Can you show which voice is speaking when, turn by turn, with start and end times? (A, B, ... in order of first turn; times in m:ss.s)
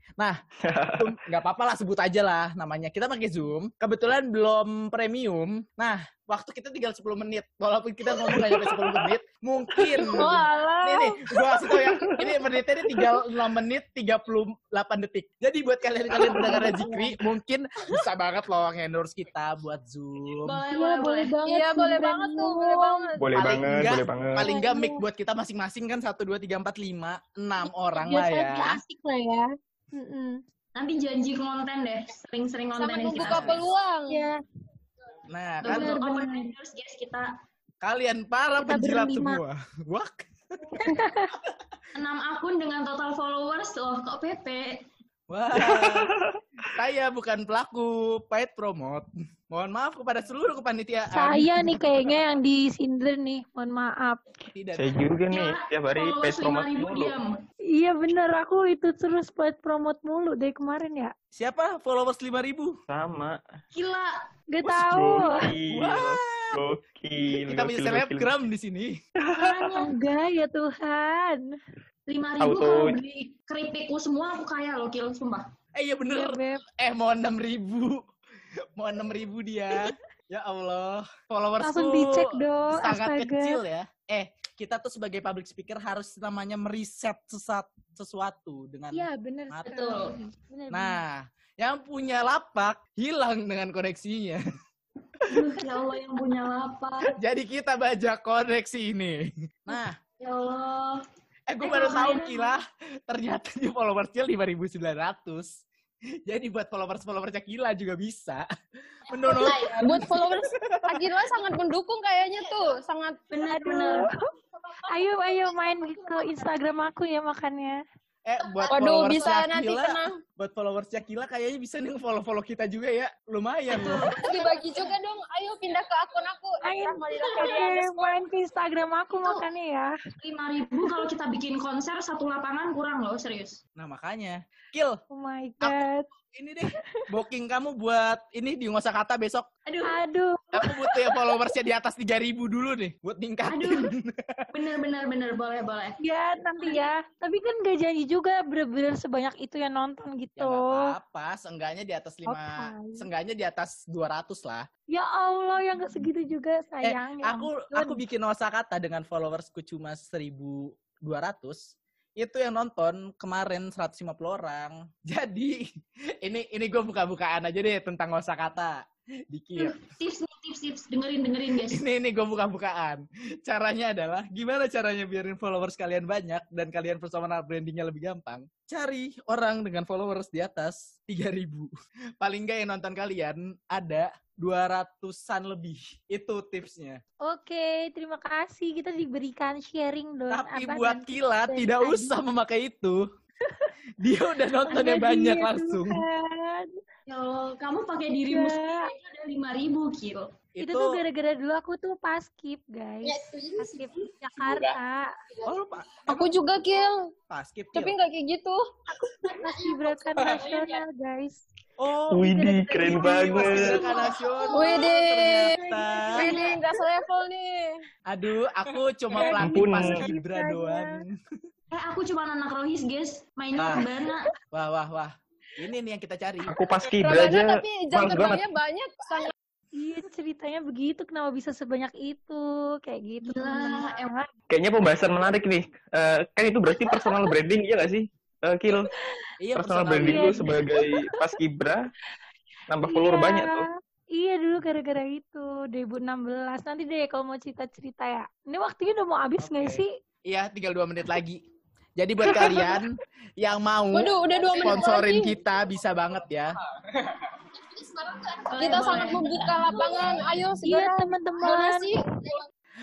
0:00.6-0:01.1 A
0:01.0-0:20.6 B
0:08.2-0:09.1 A
0:09.8-0:10.3 A
0:10.1-0:11.8 C
0:16.1-0:17.1 D
0:20.4-0:21.4 E
0:20.7-0:23.1 D
0:21.5-0:23.1 C
0:23.2-0:24.5 A
0:23.4-0:28.8 B
0:24.4-0:25.0 D
0:27.6-0:30.4 D
0:30.7-0:33.6 E
0:32.7-0:34.2 C
0:33.2-0:33.6 B
0:34.1-0:34.4 D
0:35.3-0:35.9 B
0:35.6-0:37.3 E
0:35.6-0:36.5 D
0:37.8-0:40.9 B
0:38.6-0:39.4 D
0:40.8-0:41.3 D
0:42.0-0:44.8 E
0:45.3-0:46.1 B
0:45.6-0:46.6 A
0:46.7-0:52.1 B
0:51.1-0:54.5 D
0:54.6-0:55.0 B
0:54.7-0:57.1 A
0:55.3-0:57.4 E
0:57.7-1:01.1 D
1:01.3-1:02.7 B
1:02.9-1:03.4 A
1:03.7-1:04.1 E
1:04.5-1:05.4 D
1:04.6-1:08.3 A
1:05.7-1:06.6 B
1:07.4-1:08.9 B
1:09.2-1:09.7 A
1:09.4-1:09.9 E
1:09.7-1:11.4 D
1:12.1-1:15.5 E
1:12.4-1:13.0 A
1:15.7-1:18.0 B
1:16.1-1:16.6 D
1:18.8-1:29.8 B
1:21.6-1:23.6 D
1:28.9-1:31.0 D
1:29.6-1:30.1 E
1:30.7-1:34.4 B
1:35.3-1:37.2 E
1:37.1-1:40.0 B
1:40.2-1:41.0 E
1:41.5-1:45.6 B
1:41.6-1:42.6 E
1:46.2-1:48.4 B
1:49.1-1:51.1 B
1:49.4-1:53.2 C
1:53.3-1:54.1 E
1:53.4-1:54.1 D
1:54.9-1:57.8 D
1:58.2-2:04.1 B
1:58.7-2:00.1 C
2:03.7-2:04.7 E
2:04.2-2:08.2 C
2:06.6-2:09.9 D
2:10.2-2:13.6 E
2:13.8-2:15.0 B
2:15.1-2:16.1 D
2:15.6-2:19.5 B
2:19.7-2:20.0 E
2:19.8-2:21.3 D
2:20.6-2:24.4 B
2:23.5-2:23.9 E
2:24.5-2:26.0 E
2:26.0-2:30.9 D
2:26.6-2:26.9 E
2:30.4-2:34.7 B
2:32.3-2:33.1 D
2:34.9-2:38.0 D
2:36.8-2:45.6 B
2:46.2-2:49.8 B
2:49.6-2:51.8 E
2:51.7-3:07.0 B
3:07.2-3:12.1 D
3:10.3-3:13.0 B
3:14.0-3:16.0 B
3:14.7-3:16.7 D
3:17.1-3:20.3 E
3:18.3-3:18.9 D
3:20.6-3:21.0 B
3:20.6-3:25.1 D
3:23.1-3:23.9 C
3:24.4-3:24.7 C
3:25.4-3:26.3 B
3:26.1-3:26.9 C
3:27.3-3:28.0 B
3:27.7-3:28.6 C
3:28.9-3:31.4 D
3:30.2-3:30.6 C
3:31.8-3:32.3 B
3:32.1-3:33.8 A
3:32.2-3:34.6 D
3:32.9-3:36.3 B
3:33.5-3:34.2 E
3:34.5-3:37.7 C
3:38.1-3:41.1 B
3:39.2-3:41.0 D
3:39.3-3:40.0 A
3:41.7-3:44.3 E
3:43.6-3:43.9 B
3:44.5-3:46.6 B
3:46.4-3:48.4 A
3:47.0-3:49.3 C
3:49.8-3:54.3 D
3:53.2-3:54.1 E
3:54.5-3:58.9 A
3:56.8-3:57.1 D
3:59.4-4:00.6 B
3:59.6-4:01.9 A
4:00.0-4:01.1 D
4:02.7-4:03.7 A
4:02.9-4:03.6 D
4:04.1-4:09.9 D
4:09.4-4:11.4 B
4:12.0-4:16.6 B
4:12.2-4:12.8 C
4:13.9-4:15.4 C
4:17.9-4:22.3 C
4:18.5-4:20.5 E
4:20.6-4:21.9 D